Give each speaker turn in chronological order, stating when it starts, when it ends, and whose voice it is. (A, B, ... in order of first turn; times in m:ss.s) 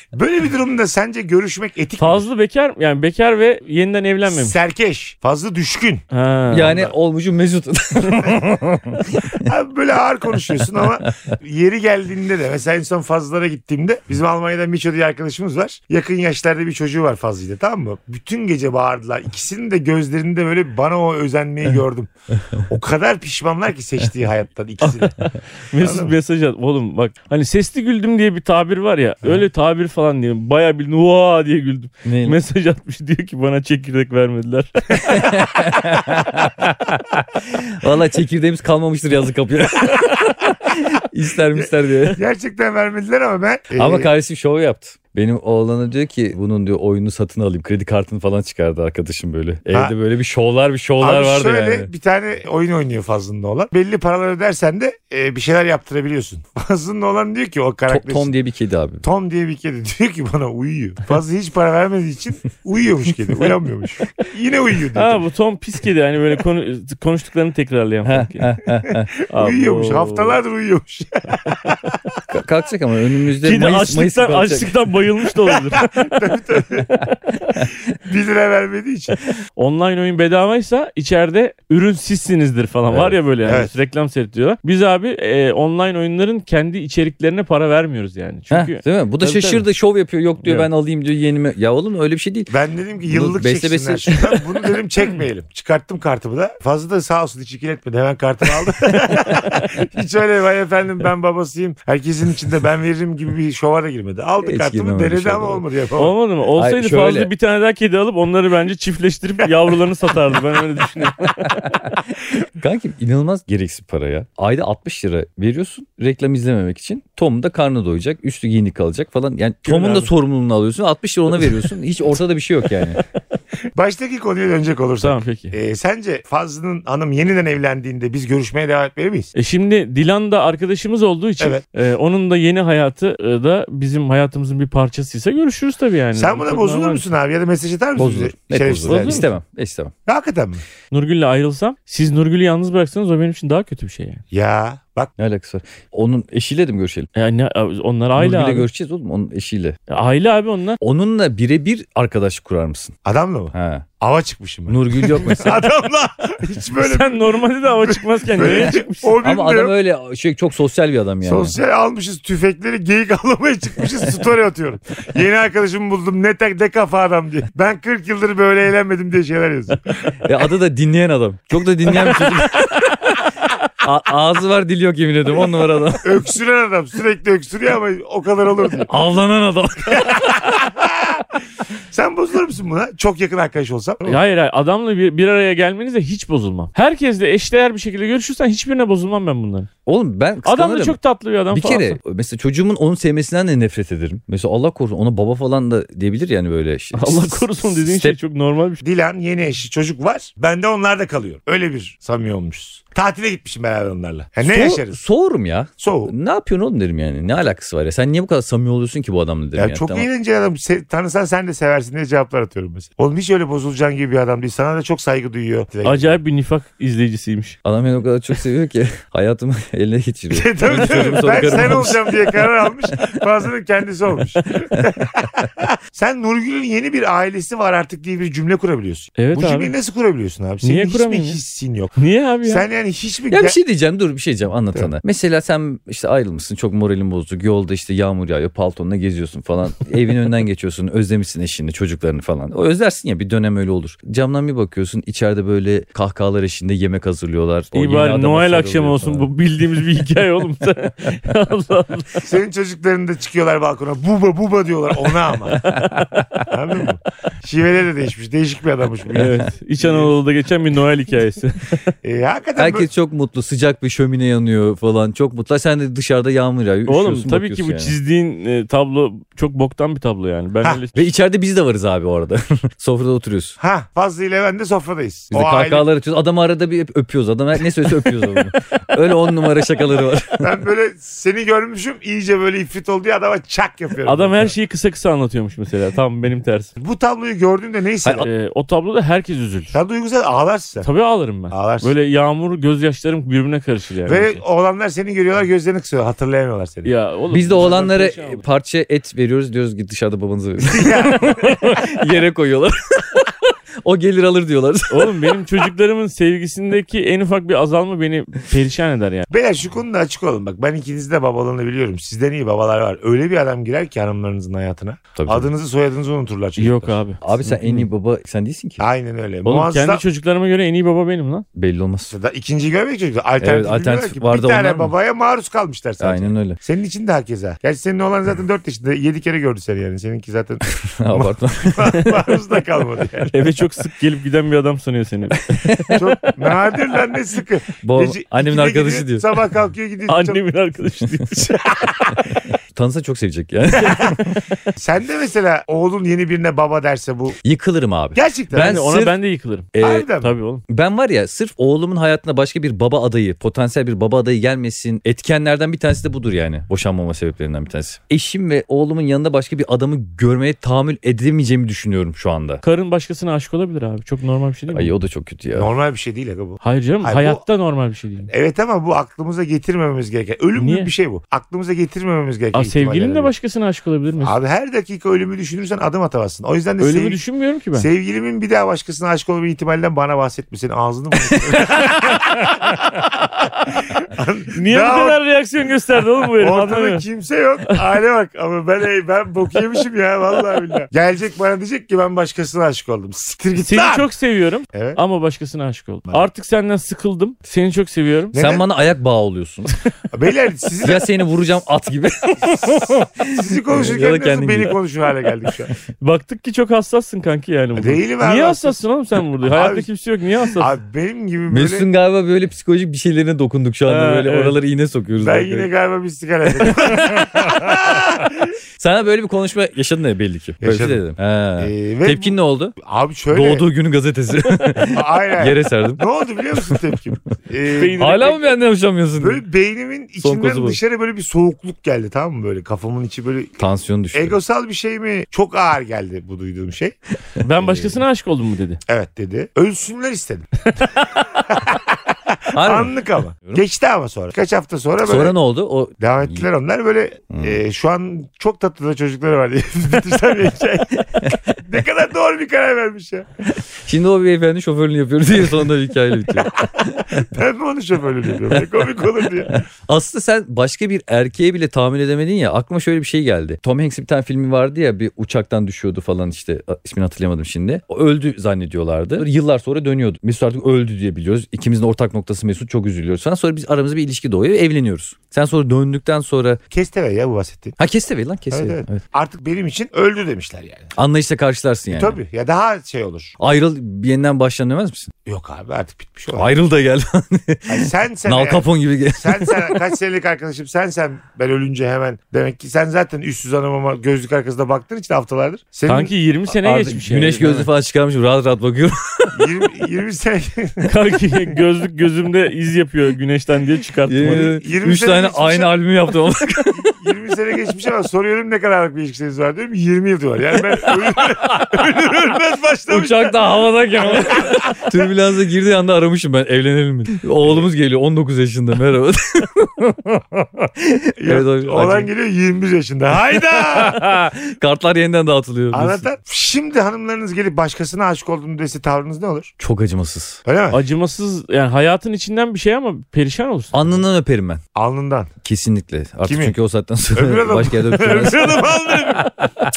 0:00.1-0:02.3 A
0:02.0-0:04.6 B
0:04.2-0:06.0 A
0:06.1-0:06.7 B
0:06.5-0:09.4 C
0:06.6-0:06.9 A
0:09.4-0:22.1 A
0:10.7-0:11.3 C
0:22.7-0:25.2 A
0:25.2-0:35.3 B
0:25.8-0:26.1 A
0:32.0-0:32.4 C
0:35.0-0:42.2 C
0:41.5-0:44.1 A
0:43.8-0:51.9 C
0:51.0-0:58.3 A
0:57.9-0:59.0 C
0:59.0-1:05.2 A
1:04.9-1:08.5 B
1:08.0-1:09.1 C
1:08.9-1:12.1 A
1:09.3-1:10.4 B
1:12.3-1:14.7 C
1:13.4-1:16.1 B
1:15.8-1:17.0 A
1:17.5-1:19.2 A
1:19.6-1:29.6 B
1:22.9-1:23.2 C
1:23.4-1:23.7 A
1:28.5-1:32.5 C
1:30.4-1:30.7 B
1:32.5-1:46.1 A
1:33.1-1:34.4 C
1:44.4-1:45.6 C
1:46.0-1:51.9 B
1:46.6-1:47.3 C
1:51.6-2:03.0 C
1:59.7-2:00.1 B
2:03.8-2:09.3 A
2:05.0-2:05.5 B
2:09.3-2:17.1 B
2:16.2-2:19.3 A
2:18.0-2:19.9 C
2:18.9-2:19.2 B
2:20.1-2:20.6 A
2:20.9-2:24.2 B
2:24.3-2:25.1 A
2:25.2-2:27.1 C
2:27.1-2:28.7 B
2:28.2-2:29.8 C
2:29.9-2:30.8 B
2:30.8-2:32.9 C
2:33.0-2:39.7 A
2:33.5-2:33.8 C
2:34.7-2:35.6 C
2:36.8-2:39.1 B
2:39.2-2:41.6 C
2:41.2-2:50.2 A
2:50.2-2:53.1 C
2:51.9-2:52.8 A
2:53.8-2:56.1 C
2:56.0-2:58.9 A
2:58.9-3:00.5 C
2:59.9-3:01.2 A
3:01.9-3:04.2 A
3:04.0-3:09.7 B
3:09.8-3:11.0 C
3:10.4-3:12.0 B
3:11.5-3:18.2 C
3:16.9-3:18.8 B
3:18.8-3:25.0 A
3:24.4-3:30.1 C
3:25.8-3:26.1 A
3:29.6-3:36.2 A
3:35.8-3:37.6 B
3:37.6-3:42.4 C
3:40.3-3:53.6 A
3:49.2-3:49.7 B
3:50.6-3:51.4 B
3:52.0-3:52.6 B
3:53.3-4:09.3 C
4:07.7-4:12.2 B
4:12.2-4:15.6 A
4:15.6-4:16.4 C
4:15.6-4:15.9 B
4:16.5-4:20.1 A
4:19.1-4:21.9 B
4:19.2-4:19.4 C
4:22.0-4:22.9 A
4:22.6-4:27.9 C
4:26.9-4:31.1 B
4:30.9-4:33.6 C
4:33.6-4:35.8 A
4:35.3-4:40.5 C
4:40.4-4:44.5 A
4:44.0-4:46.7 B
4:46.8-4:48.3 A
4:48.0-4:48.3 C
4:48.2-4:49.7 B
4:49.7-4:50.9 A
4:50.8-4:54.4 B
4:51.5-4:51.9 A
4:54.1-4:56.9 A
4:56.8-4:58.4 B
4:57.3-5:03.3 C
5:00.6-5:01.7 A
5:01.3-5:01.8 B
5:03.8-5:05.4 C
5:04.9-5:09.3 B
5:09.3-5:17.0 A
5:15.2-5:15.5 C
5:16.6-5:17.9 B
5:17.2-5:18.8 C
5:18.8-5:20.0 A
5:19.4-5:21.4 B
5:21.6-5:22.1 C
5:22.1-5:33.5 A
5:23.4-5:24.9 C
5:26.0-5:26.6 C
5:31.0-5:32.0 C
5:33.3-5:36.0 B
5:35.5-5:36.0 C
5:35.9-5:40.4 A
5:37.8-5:39.2 C
5:40.1-5:41.8 B
5:41.4-5:42.4 A
5:42.7-5:44.3 C
5:43.8-5:44.6 B
5:44.8-5:47.4 A
5:47.4-5:49.2 C
5:48.2-5:48.8 A
5:48.5-5:50.6 B
5:49.7-5:50.1 C
5:49.8-5:50.3 A
5:50.7-6:02.6 C
6:02.6-6:04.9 B
6:04.7-6:05.7 C
6:05.6-6:07.4 A
6:06.6-6:08.3 B
6:08.3-6:13.3 A
6:10.6-6:10.9 B
6:12.5-6:14.4 B
6:14.2-6:17.2 A
6:16.8-6:17.9 B
6:17.7-6:25.2 A
6:21.3-6:22.5 B
6:24.5-6:27.0 B
6:26.4-6:34.1 A
6:33.6-6:38.4 B
6:34.7-6:35.0 A
6:38.3-6:38.6 A
6:38.3-6:39.7 C
6:40.1-6:41.1 A
6:40.8-6:44.8 C
6:42.5-6:43.0 B
6:43.2-6:45.8 A
6:46.0-6:50.7 B
6:47.8-6:48.8 A
6:49.5-6:49.9 A
6:50.6-6:51.9 A
6:51.5-6:55.7 C
6:53.9-6:54.6 B
6:55.2-6:58.5 A
6:56.6-6:58.2 C
6:58.8-7:02.8 C
7:00.6-7:01.0 A
7:01.6-7:03.7 A
7:03.3-7:06.8 C
7:04.8-7:08.0 A
7:07.7-7:08.5 B
7:08.0-7:09.4 C
7:09.2-7:13.6 A
7:10.2-7:10.8 C
7:13.6-7:14.4 C
7:14.1-7:17.0 A
7:17.4-7:18.8 B
7:18.9-7:20.5 A
7:21.0-7:21.2 B
7:21.5-7:25.4 A
7:22.5-7:22.9 C
7:25.0-7:26.5 C
7:26.0-7:33.3 A
7:27.3-7:27.6 C
7:33.8-7:37.3 C
7:36.6-7:39.6 A
7:39.5-7:56.6 C
7:56.7-7:57.8 A
7:57.8-7:59.0 C
7:58.5-8:01.0 A
8:01.0-8:02.2 C
8:01.9-8:03.3 A
8:03.4-8:05.1 C
8:05.3-8:06.5 A
8:06.3-8:09.8 C
8:07.7-8:16.1 A
8:15.9-8:17.7 B
8:16.6-8:19.5 C
8:19.3-8:20.9 A
8:20.8-8:24.5 B
8:24.1-8:26.9 C
8:24.2-8:25.8 A
8:26.8-8:33.4 A
8:32.9-8:42.1 C
8:34.0-8:35.0 A
8:41.2-8:44.2 A
8:43.3-8:46.0 C
8:45.7-8:49.5 A
8:49.6-8:50.4 C
8:50.4-8:50.8 A
8:50.7-8:53.9 B
8:53.7-8:54.6 C
8:54.8-8:55.3 A
8:55.4-8:58.8 C
8:56.2-8:56.5 A
8:57.1-8:59.3 A